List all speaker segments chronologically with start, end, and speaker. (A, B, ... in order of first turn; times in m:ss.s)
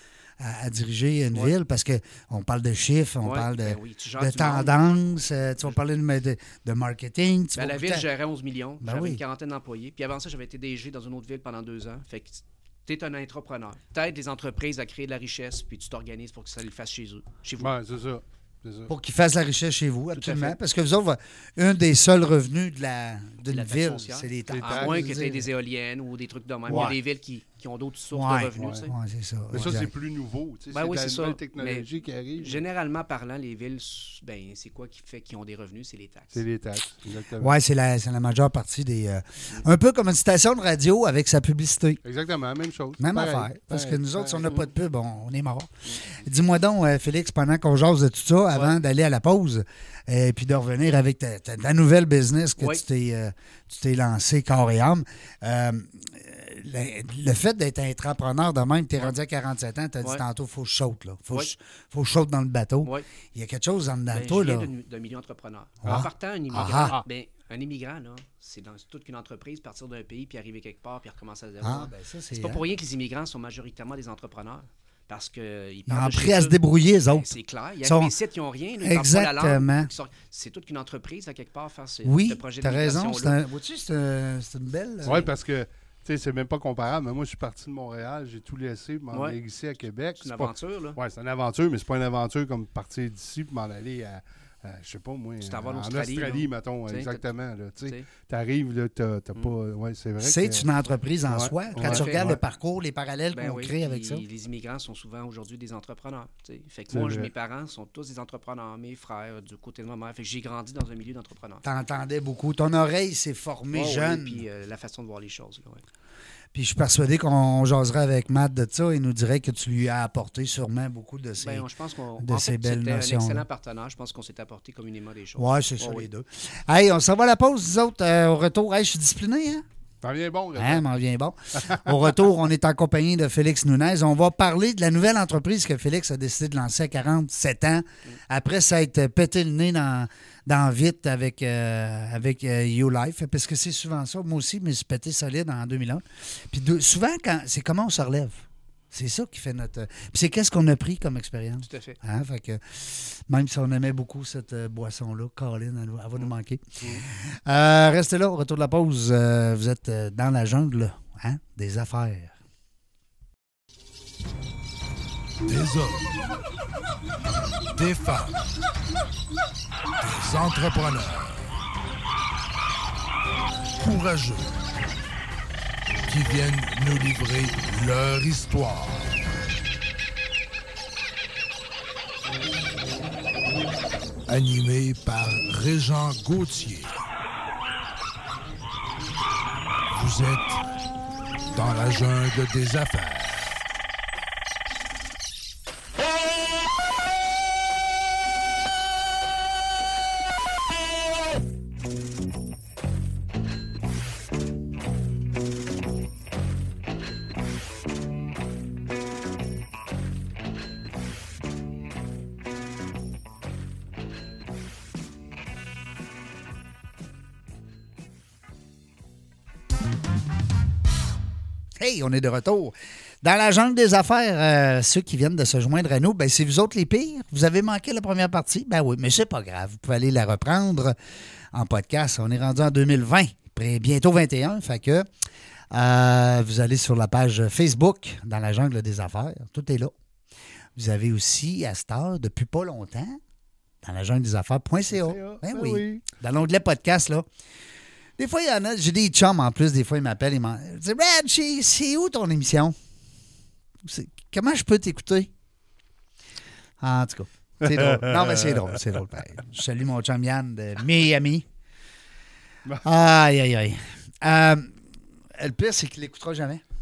0:00.4-0:08.1 A
0:03.2-0:04.8 B
0:07.6-0:17.7 B
0:08.8-0:09.2 A
0:17.6-0:18.9 C
0:18.9-0:25.5 A
0:20.1-0:20.6 B
0:23.5-0:28.9 B
0:24.5-0:25.1 C
0:26.7-0:27.0 A
0:28.1-0:29.9 A
0:29.5-0:32.6 C
0:30.7-0:31.9 B
0:32.4-0:36.4 B
0:36.3-0:37.6 C
0:37.4-0:42.0 A
0:42.0-0:44.5 C
0:43.0-1:04.7 A
0:52.6-0:52.8 B
1:04.1-1:23.4 B
1:05.8-1:07.0 A
1:11.6-1:12.6 A
1:15.9-1:17.3 A
1:17.8-1:18.1 A
1:18.8-1:19.9 A
1:22.0-1:25.3 A
1:25.0-1:40.7 C
1:29.1-1:29.4 B
1:30.2-1:31.0 B
1:35.4-1:37.2 B
1:37.8-1:38.1 B
1:40.2-1:44.2 A
1:41.3-1:42.4 C
1:41.8-1:42.3 B
1:43.3-1:51.6 B
1:46.9-1:47.3 C
1:51.6-1:54.4 A
1:53.7-1:55.8 B
1:56.5-2:01.7 A
2:01.4-2:06.1 B
2:02.2-2:03.4 A
2:05.4-2:09.6 A
2:10.0-2:10.9 C
2:10.6-2:42.4 A
2:11.6-2:11.8 C
2:31.6-2:32.0 B
2:45.4-2:46.1 D
2:47.8-2:48.5 D
2:50.0-2:51.5 D
2:53.8-2:54.6 D
2:56.1-2:59.2 D
3:04.3-3:07.0 D
3:09.9-3:10.6 D
3:11.5-3:13.6 D
3:41.8-3:51.0 A
3:51.5-3:55.1 A
3:55.7-3:59.9 A
4:00.8-4:03.2 A
4:03.8-4:07.3 A
4:04.9-4:06.0 C
4:08.2-4:12.8 A
4:13.8-4:15.3 A
4:16.8-4:21.5 A
4:17.6-4:18.8 C
4:22.8-4:24.8 A
4:25.4-4:26.6 A